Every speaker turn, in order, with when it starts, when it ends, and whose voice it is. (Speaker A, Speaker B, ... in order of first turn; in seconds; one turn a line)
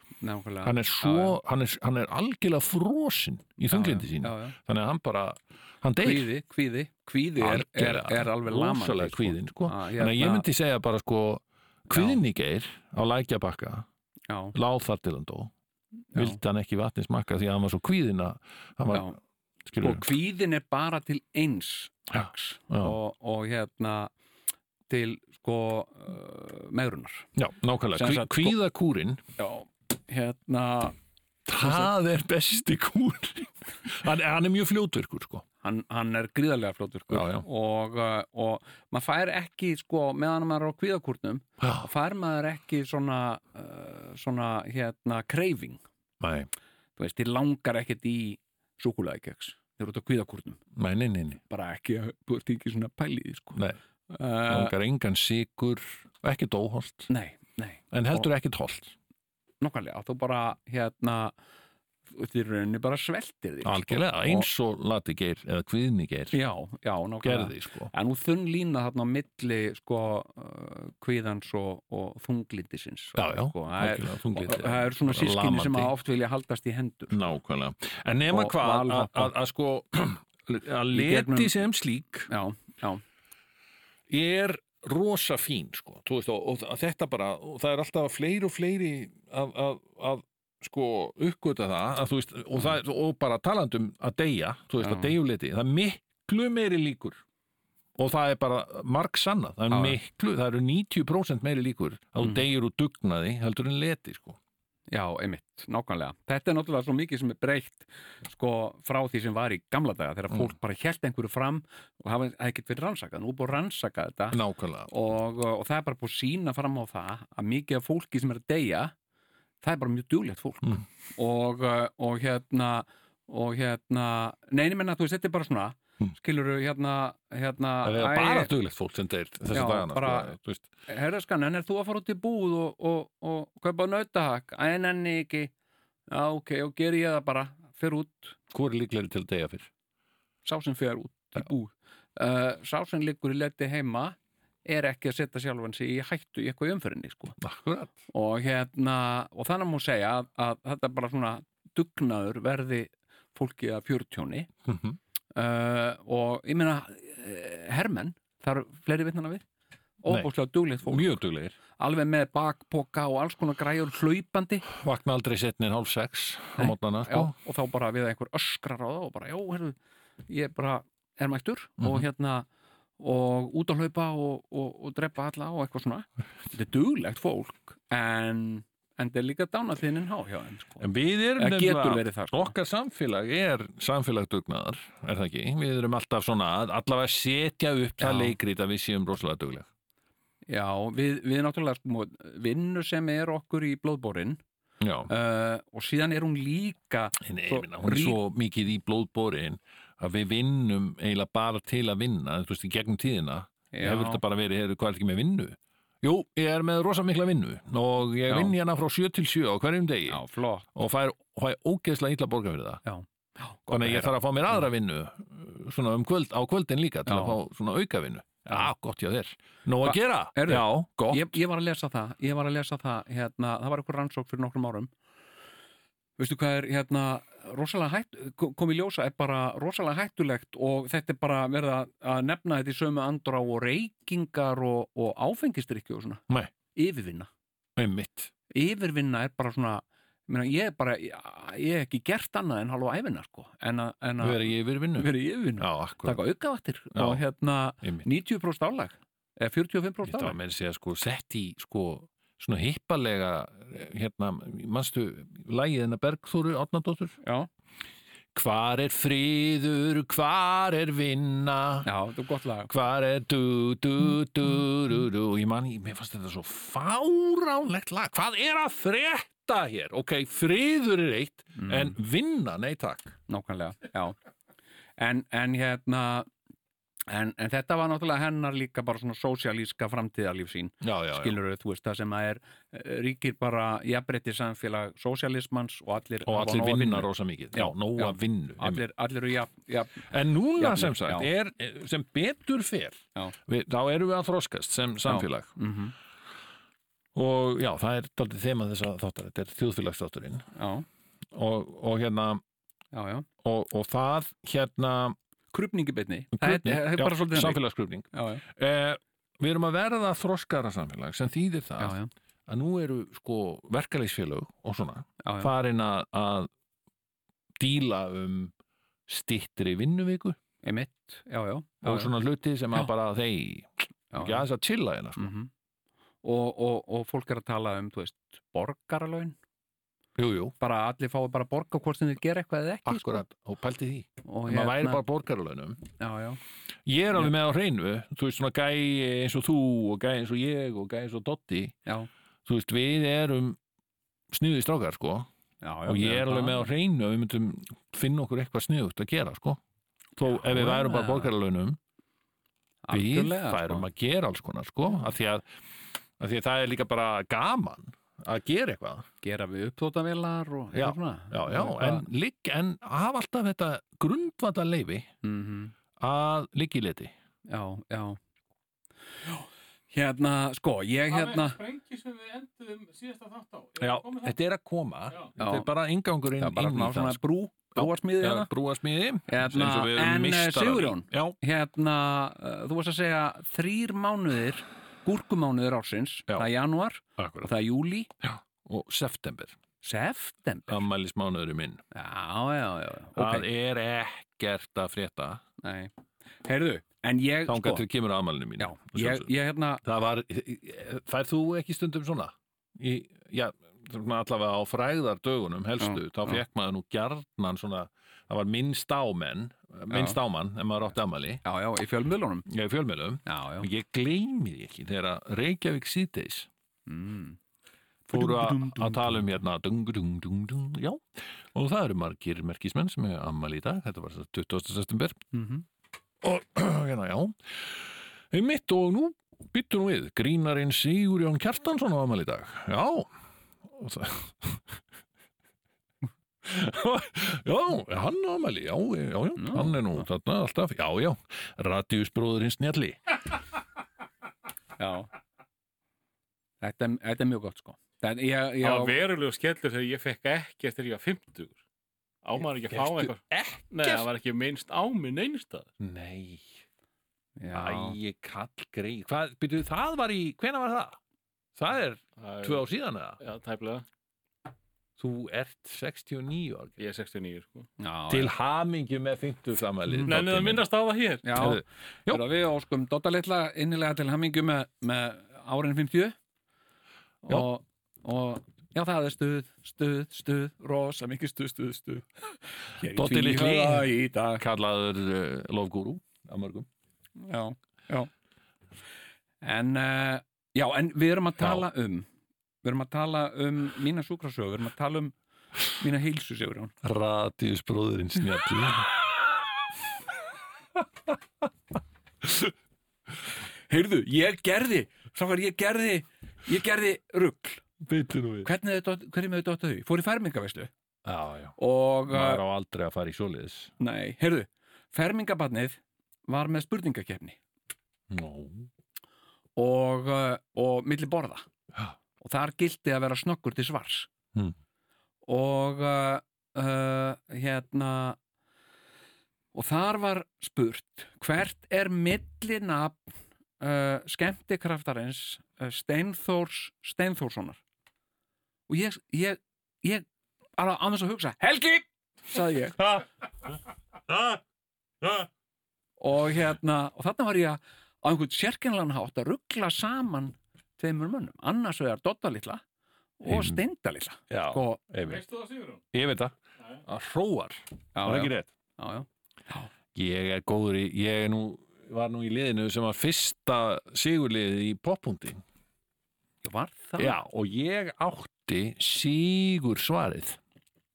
Speaker A: 0.2-1.4
Speaker B: 0.6-6.3
Speaker A: 3.7-4.5
Speaker A: 6.0-10.5
Speaker B: 7.4-13.9
Speaker A: 11.9-12.2
Speaker A: 14.3-14.6
Speaker B: 14.5-15.5
Speaker A: 16.1-16.4
Speaker B: 16.1-19.1
Speaker A: 18.9-19.2
Speaker B: 19.7-20.1
Speaker A: 19.8-24.1
Speaker B: 22.1-23.0
Speaker A: 24.9-27.3
Speaker B: 27.4-29.2
Speaker A: 27.9-28.6
Speaker A: 29.4-31.0
Speaker B: 31.5-35.5
Speaker A: 31.6-31.9
Speaker A: 35.6-45.8
Speaker B: 37.1-37.5
Speaker B: 41.6-41.9
Speaker B: 46.2-46.5
Speaker A: 47.0-50.6
Speaker B: 50.8-51.4
Speaker A: 51.5-54.7
Speaker B: 54.5-57.1
Speaker A: 57.1-58.3
Speaker B: 57.9-59.0
Speaker A: 59.6-61.4
Speaker A: 62.1-64.5
Speaker B: 63.6-66.4
Speaker A: 66.3-77.2
Speaker B: 67.2-67.9
Speaker B: 73.2-75.9
Speaker B: 77.1-82.3
Speaker A: 78.3-79.3
Speaker A: 80.9-81.5
Speaker A: 82.3-83.0
Speaker B: 84.1-97.2
Speaker A: 94.8-95.1
Speaker B: 98.0-104.4
Speaker A: 99.7-100.0
Speaker A: 104.9-118.9
Speaker B: 114.3-114.9
Speaker A: 119.6-128.5
Speaker B: 127.8-130.7
Speaker A: 129.5-130.3
Speaker A: 130.9-135.5
Speaker A: 136.1-138.4
Speaker B: 138.5-139.7
Speaker A: 140.4-147.4
Speaker B: 147.4-147.9
Speaker A: 148.1-154.5
Speaker B: 154.7-155.0
Speaker A: 155.3-159.4
Speaker A: 160.0-161.1
Speaker B: 160.9-161.6
Speaker A: 161.8-164.7
Speaker B: 164.7-167.3
Speaker A: 166.6-169.8
Speaker A: 170.3-172.5
Speaker B: 171.8-172.1
Speaker A: 173.0-180.8
Speaker B: 180.8-189.7
Speaker A: 181.4-182.6
Speaker A: 188.0-188.4
Speaker A: 190.5-194.4
Speaker B: 194.8-195.1
Speaker A: 195.1-198.2
Speaker B: 197.2-210.2
Speaker A: 203.7-204.2
Speaker A: 208.3-208.5
Speaker A: 210.1-210.7
Speaker B: 210.8-212.8
Speaker A: 212.8-214.6
Speaker B: 213.7-221.4
Speaker A: 217.1-217.4
Speaker A: 219.8-224.9
Speaker A: 226.2-236.2
Speaker A: 236.7-237.3
Speaker B: 237.8-238.3
Speaker A: 238.5-250.4
Speaker B: 244.2-246.2
Speaker B: 246.9-247.2
Speaker B: 250.1-257.2
Speaker A: 257.2-257.5
Speaker B: 258.4-261.9
Speaker A: 261.9-262.7
Speaker B: 262.7-273.1
Speaker A: 271.6-272.0
Speaker A: 273.3-274.2
Speaker A: 275.0-276.3
Speaker A: 277.1-291.3
Speaker B: 280.8-281.4
Speaker B: 286.3-288.8
Speaker B: 290.1-295.5
Speaker A: 295.1-295.9
Speaker B: 297.1-300.5
Speaker A: 300.6-300.9
Speaker B: 301.3-302.4
Speaker A: 302.9-303.3
Speaker B: 303.4-305.2
Speaker A: 305.5-307.6
Speaker B: 306.3-316.5
Speaker A: 308.1-308.4
Speaker A: 311.8-312.1
Speaker A: 315.2-315.5
Speaker B: 317.6-318.5
Speaker B: 319.1-320.4
Speaker A: 320.6-322.1
Speaker B: 321.8-325.3
Speaker A: 324.1-324.4
Speaker A: 325.2-325.5
Speaker A: 326.2-329.4
Speaker B: 330.2-330.5
Speaker A: 330.6-333.2
Speaker B: 332.9-335.8
Speaker A: 334.2-335.0
Speaker A: 336.0-336.4
Speaker B: 336.9-341.8
Speaker B: 342.5-343.6
Speaker B: 344.3-345.3
Speaker A: 345.6-346.7
Speaker B: 345.9-349.6
Speaker B: 350.2-351.8
Speaker A: 350.3-351.3
Speaker A: 352.9-353.9
Speaker B: 352.9-355.5
Speaker B: 356.2-359.1
Speaker A: 359.2-362.1
Speaker B: 360.7-365.1
Speaker A: 365.2-365.7
Speaker B: 366.0-367.1
Speaker A: 367.5-368.2
Speaker A: 369.2-371.6
Speaker C: 371.1-374.4
Speaker B: 373.8-377.2
Speaker A: 375.4-375.7
Speaker A: 376.4-378.5
Speaker B: 377.8-381.4
Speaker A: 379.3-388.1
Speaker B: 387.2-387.5
Speaker B: 388.2-389.5
Speaker A: 389.8-390.8
Speaker B: 390.7-391.8
Speaker A: 391.9-393.5
Speaker B: 393.2-395.4
Speaker A: 395.6-395.9
Speaker A: 396.4-397.9
Speaker B: 397.5-399.3
Speaker A: 398.6-399.8
Speaker B: 399.8-411.4
Speaker A: 405.8-406.4
Speaker A: 409.9-410.2
Speaker A: 411.4-412.5
Speaker B: 412.5-416.5
Speaker A: 413.3-413.7
Speaker A: 416.9-417.4
Speaker A: 418.1-419.2
Speaker B: 418.1-425.2
Speaker A: 425.3-425.6
Speaker B: 426.2-433.1
Speaker B: 433.7-434.6
Speaker B: 436.4-443.0
Speaker A: 439.4-440.1
Speaker A: 444.8-445.1
Speaker A: 446.6-448.9
Speaker C: 448.6-451.6
Speaker C: 452.2-455.7
Speaker B: 452.7-454.1
Speaker B: 455.8-456.6
Speaker A: 457.4-458.0
Speaker B: 457.5-461.0
Speaker B: 461.6-463.2
Speaker C: 462.2-462.6
Speaker C: 463.2-463.8
Speaker B: 465.0-466.8
Speaker C: 466.8-467.7
Speaker A: 467.8-468.3
Speaker B: 468.1-470.6
Speaker A: 469.9-470.1
Speaker C: 470.1-471.3
Speaker A: 471.2-476.2
Speaker B: 471.3-472.2
Speaker A: 477.2-484.4
Speaker B: 482.8-486.7
Speaker A: 487.2-488.1
Speaker A: 489.4-492.1
Speaker A: 492.6-495.1
Speaker A: 495.7-496.7
Speaker B: 496.8-498.9
Speaker B: 502.2-502.5
Speaker A: 503.7-507.6
Speaker B: 507.8-508.5
Speaker A: 508.4-510.7
Speaker B: 511.1-511.6
Speaker A: 511.6-512.4
Speaker B: 512.1-513.7
Speaker A: 513.8-517.4
Speaker B: 518.1-518.7
Speaker A: 519.6-521.5
Speaker A: 522.2-524.1
Speaker A: 525.3-528.2
Speaker A: 529.5-537.6
Speaker A: 538.7-540.1
Speaker A: 540.6-543.0
Speaker B: 544.1-544.4
Speaker A: 546.0-552.6
Speaker A: 553.2-554.8
Speaker B: 553.3-553.6
Speaker B: 554.3-555.2
Speaker C: 555.0-555.8
Speaker B: 555.9-558.5
Speaker A: 558.0-559.7
Speaker B: 560.0-565.4
Speaker A: 566.4-567.2
Speaker B: 567.0-570.4